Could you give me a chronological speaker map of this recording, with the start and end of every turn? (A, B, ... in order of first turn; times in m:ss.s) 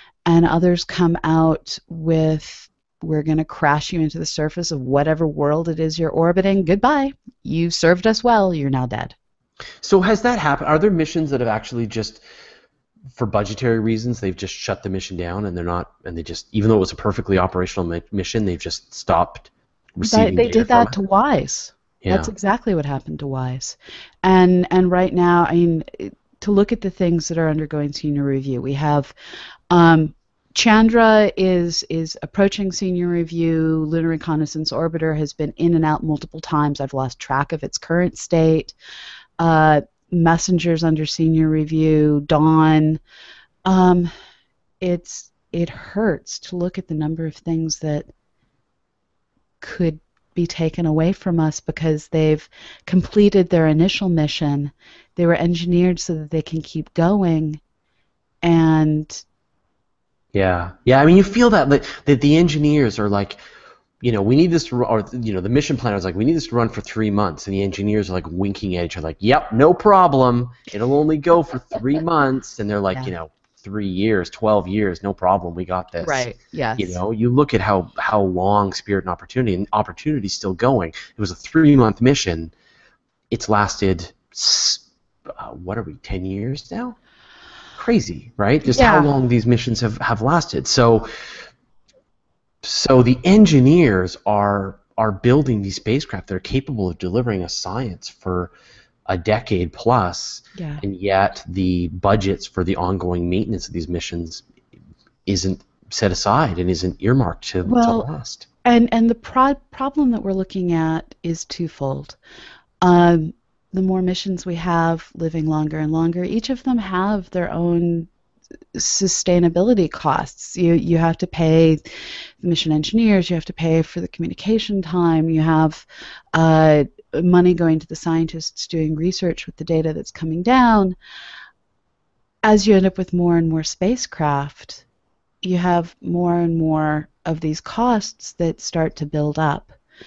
0:00.2-0:09.1 A
0:09.8-0:12.2 B
0:13.1-0:21.0 B
0:20.0-0:29.1 A
0:22.0-0:22.3 B
0:29.7-0:38.7 A
0:39.4-0:43.0 A
0:43.6-0:44.1 A
0:44.8-0:48.1 A
0:49.6-0:57.6 A
0:58.4-0:59.2 A
1:00.3-1:03.4 B
1:04.0-1:22.5 B
1:16.0-1:17.0 A
1:23.3-1:27.0 B
1:27.8-1:31.1 B
1:28.6-1:29.1 A
1:32.6-1:38.5 B
1:39.1-1:44.4 B
1:40.6-1:40.8 A
1:45.3-1:48.4 B
1:47.6-1:48.1 A
1:48.6-1:52.2 A
1:52.8-1:58.1 A
1:58.7-2:01.8 A
2:02.4-2:11.0 A
2:12.4-2:14.8 A
2:15.4-2:19.8 A